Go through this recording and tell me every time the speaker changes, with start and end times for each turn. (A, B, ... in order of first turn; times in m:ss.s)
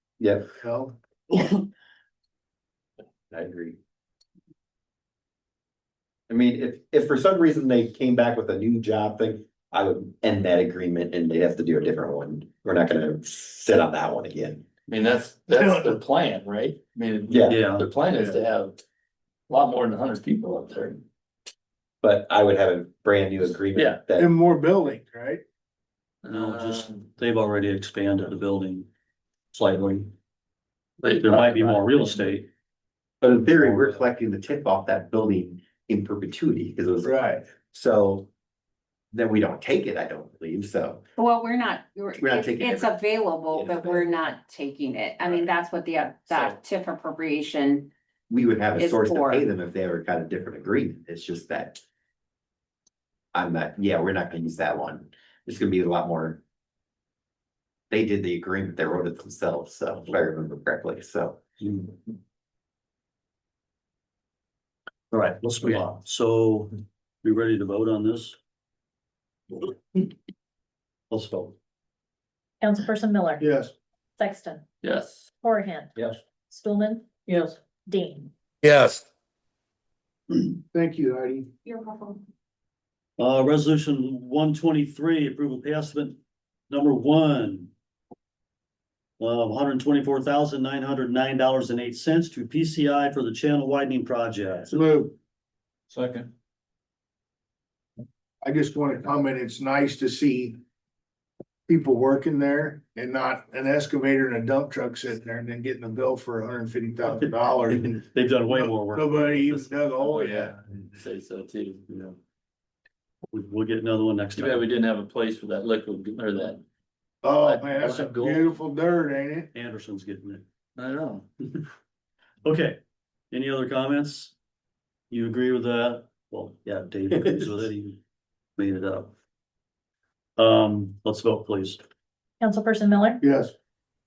0:00.2-0:00.5 A
0:00.5-0:01.5 B
0:03.3-0:03.8 A
0:06.3-0:14.6 A
0:14.9-0:18.8 C
0:15.5-0:16.0 B
0:17.3-0:17.6 A
0:17.5-0:17.9 D
0:18.1-0:18.4 B
0:19.5-0:21.0 C
0:22.0-0:24.3 A
0:23.8-0:24.0 C
0:24.2-0:25.4 B
0:26.2-0:27.1 C
0:26.3-0:28.9 D
0:29.5-0:30.1 D
0:31.0-0:32.2 C
0:31.0-0:32.5 D
0:33.2-0:38.3 A
0:37.0-0:37.4 B
0:39.1-0:41.0 A
0:41.2-0:47.9 E
0:42.2-0:42.9 A
0:43.5-0:44.2 A
0:46.3-0:46.6 C
0:48.3-0:51.8 A
0:48.8-0:49.4 E
0:53.3-0:56.4 A
0:57.9-1:01.4 A
1:05.1-1:08.4 D
1:11.1-1:11.6 D
1:12.6-1:13.4 F
1:13.4-1:13.7 B
1:14.2-1:14.6 F
1:14.8-1:15.3 C
1:15.4-1:17.1 F
1:17.9-1:18.3 F
1:20.6-1:21.5 B
1:21.6-1:22.2 E
1:23.2-1:26.2 D
1:26.7-1:27.7 D
1:29.2-1:34.7 D
1:34.7-1:35.2 B
1:35.9-1:36.3 C
1:38.4-1:40.6 B
1:41.7-1:50.6 B
1:47.7-1:49.8 D
1:50.0-1:52.2 C
1:53.3-1:54.7 D
1:54.3-1:56.6 C
1:57.2-1:59.5 B
1:57.4-1:58.5 C
1:59.5-2:00.4 D
2:00.8-2:01.3 C
2:02.4-2:02.8 D
2:03.3-2:04.3 D
2:05.1-2:08.0 D
2:08.6-2:09.1 D
2:10.4-2:11.8 D
2:12.4-2:13.2 F
2:13.2-2:13.5 B